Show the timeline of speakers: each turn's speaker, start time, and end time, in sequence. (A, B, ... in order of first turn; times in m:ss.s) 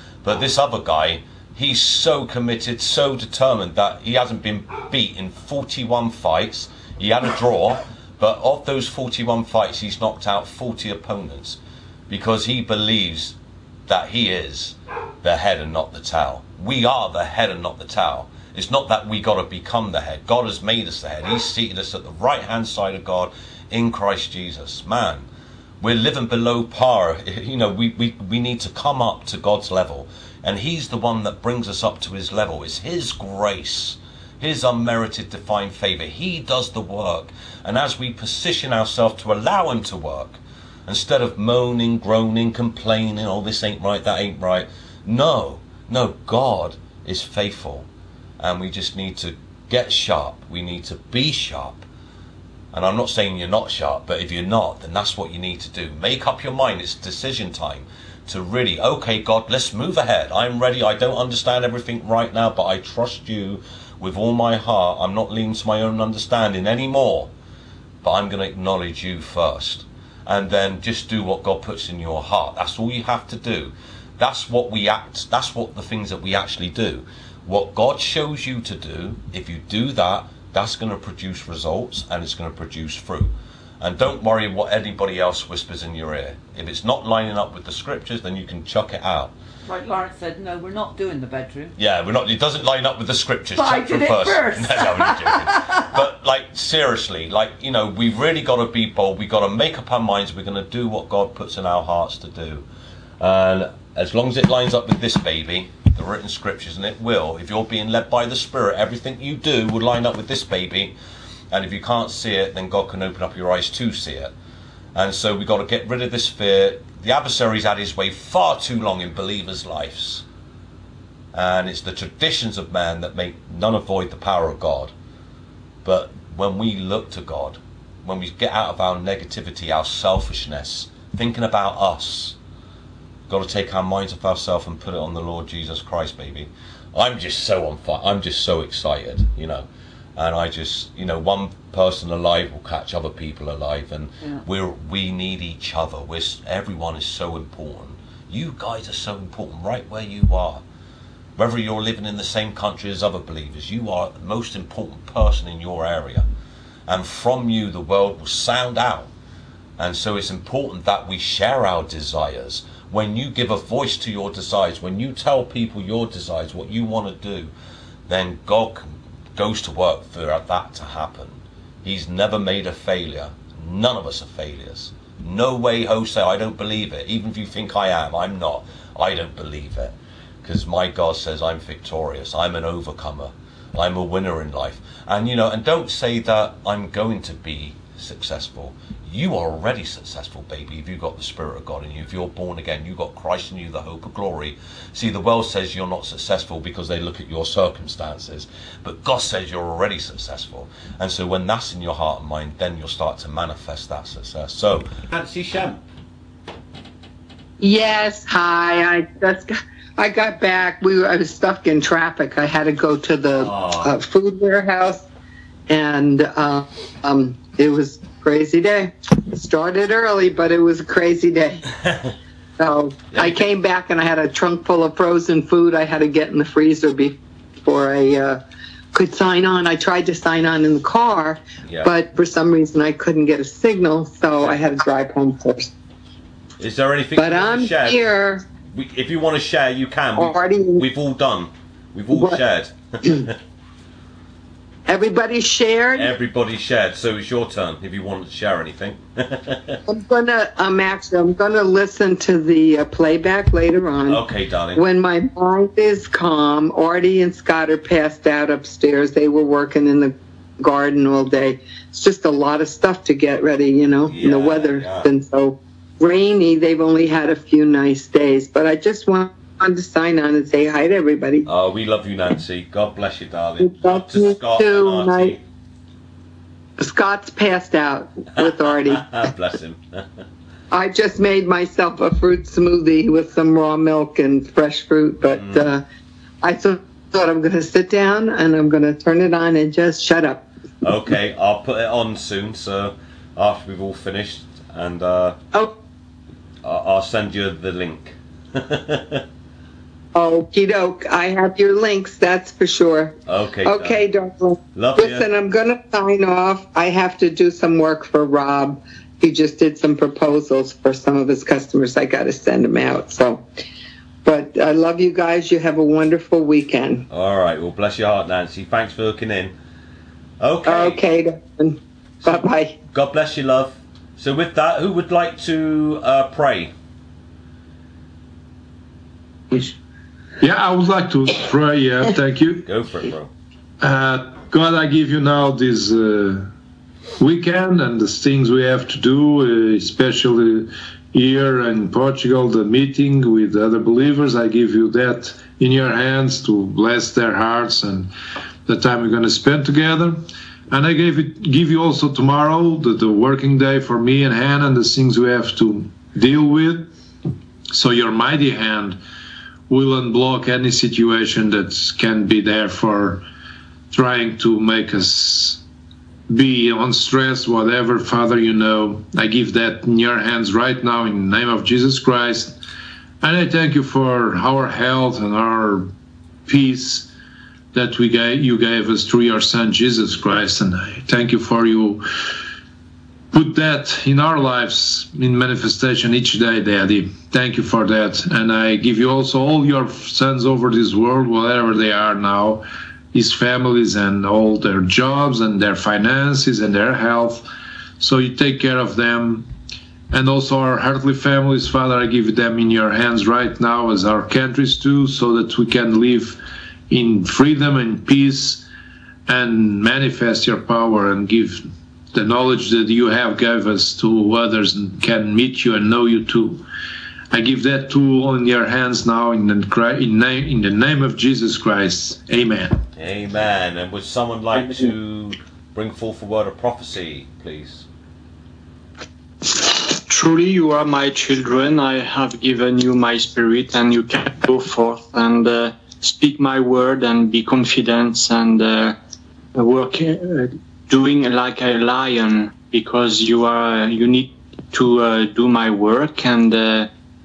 0:00.2-0:13.4 A
0:13.9-0:25.3 A
0:25.8-0:47.9 A
0:48.4-0:51.8 A
0:52.7-1:07.3 A
1:08.0-1:29.3 A
1:29.6-1:31.7 B
1:31.8-1:42.6 A
1:33.6-1:36.0 B
1:43.2-1:50.9 A
1:51.5-1:54.3 A
1:55.0-2:00.2 A
2:01.3-2:04.9 A
2:05.8-2:12.4 A
2:13.3-2:30.6 A
2:31.4-2:36.3 A
2:36.9-2:39.1 A
2:39.8-2:47.5 A
2:48.1-3:25.8 A
3:27.6-3:35.0 C
3:33.4-3:34.0 A
3:35.7-3:41.7 C
3:41.8-3:42.1 A
3:42.6-3:48.4 C
3:43.1-3:43.4 A
3:48.9-3:55.7 C
3:51.6-3:51.9 A
3:56.6-3:58.1 A
3:57.2-3:58.4 C
3:58.7-4:03.4 A
4:00.2-4:00.9 C
4:02.1-4:02.4 C
4:04.9-4:06.1 C
4:05.9-4:09.8 A
4:09.9-4:14.2 C
4:14.1-4:14.8 A
4:14.7-4:31.5 C
4:24.1-4:25.1 A
4:31.4-4:35.4 A
4:33.6-4:35.4 C
4:36.8-4:39.1 C
4:38.4-4:40.2 A
4:40.7-4:45.8 C
4:45.3-4:45.7 A
4:46.4-4:50.4 C
4:50.8-4:55.4 A
4:56.6-4:59.2 A
5:00.1-5:13.4 C
5:03.3-5:04.0 A
5:04.7-5:05.3 A
5:14.2-5:17.0 C
5:17.1-5:19.5 A
5:20.4-5:21.0 A
5:20.7-5:22.8 C
5:22.2-5:26.7 A
5:30.4-5:32.7 D
5:32.6-5:33.3 A
5:33.8-5:36.5 D
5:37.2-5:48.1 D
5:48.7-5:56.9 D
5:57.7-5:59.0 D
5:59.7-6:03.2 D
6:03.9-6:05.6 D
6:06.3-6:12.6 D
6:13.2-6:15.9 D
6:16.4-6:17.1 D
6:17.7-6:22.0 D
6:23.3-6:37.5 D
6:38.0-6:39.5 D
6:40.1-6:48.7 D
6:49.3-6:56.6 D
6:57.3-7:02.8 D
7:03.0-7:07.9 A
7:09.6-7:19.0 E
7:19.6-7:26.9 E